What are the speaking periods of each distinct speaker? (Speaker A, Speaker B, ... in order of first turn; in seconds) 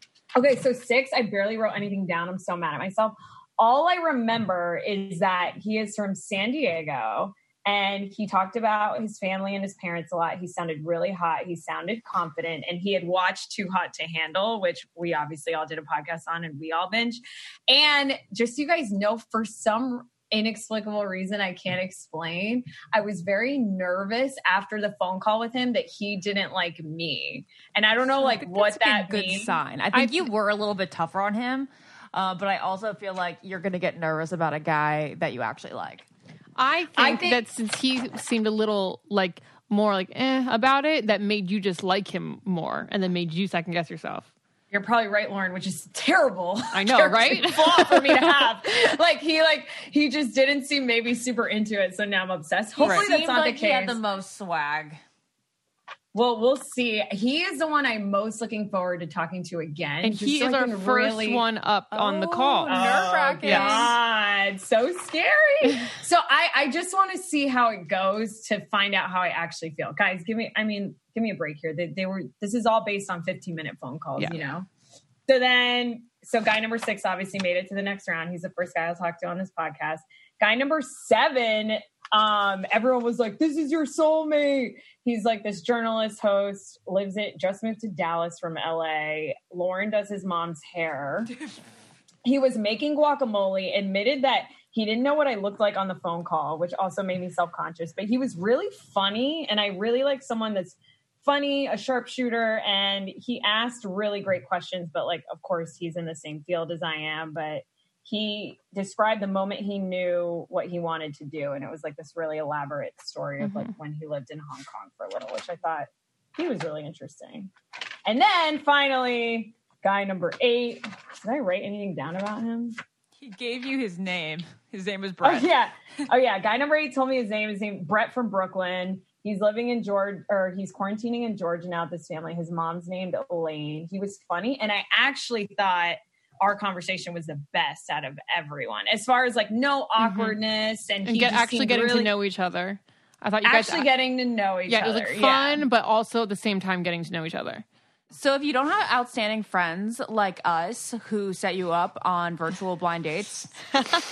Speaker A: 0.3-29.6, 37.0-37.5, 44.7-54.0, 56.1-61.4, 62.6-74.7, 75.3-91.3, 92.2-117.5, 118.0-122.8, 125.2-142.1, 143.4-145.6
Speaker B: 28.2-36.1, 52.8-55.0, 61.9-63.9, 123.2-125.5, 148.1-153.5
Speaker C: 29.9-30.3, 36.5-44.3, 46.7-48.5, 52.8-53.1, 60.0-62.8, 63.4-63.9, 74.2-74.4, 113.4-113.7, 140.0-140.4, 141.0-143.9, 144.7-147.6